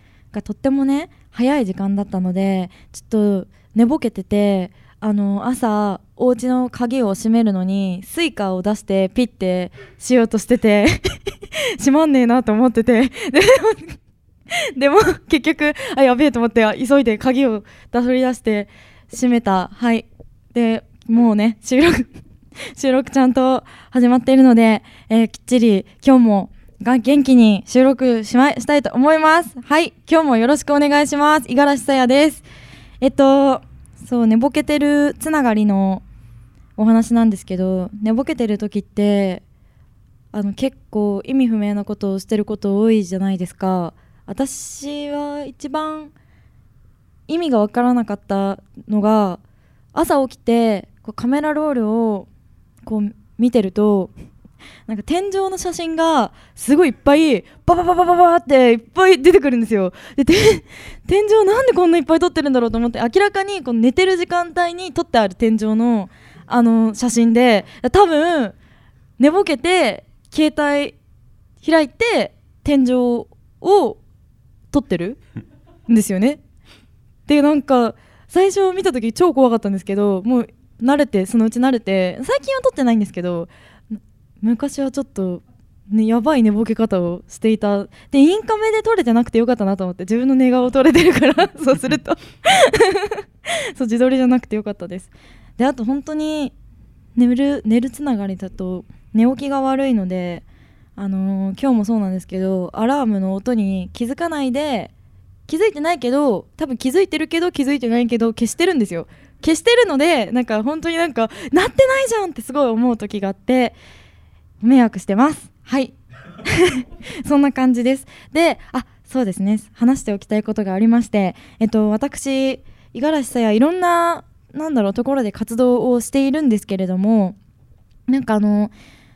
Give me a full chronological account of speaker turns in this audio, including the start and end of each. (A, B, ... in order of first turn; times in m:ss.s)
0:00.3-0:11.2 A
0:11.8-0:14.0 A
0:14.8-0:22.1 A
0:22.8-0:32.4 A
0:33.0-0:36.0 A
0:36.8-0:39.4 A
0:40.3-0:46.1 A
0:47.3-0:49.4 A
0:49.9-0:52.3 A
0:52.8-0:54.1 A
0:54.9-1:08.5 A
1:09.2-1:10.9 A
1:11.6-1:14.0 A
1:14.7-1:15.2 A
1:15.9-1:16.4 A
1:17.3-1:36.5 A
1:37.2-1:40.4 A
1:41.0-1:44.9 A
1:45.5-1:53.7 A
1:54.6-2:07.4 A
2:08.1-2:08.7 A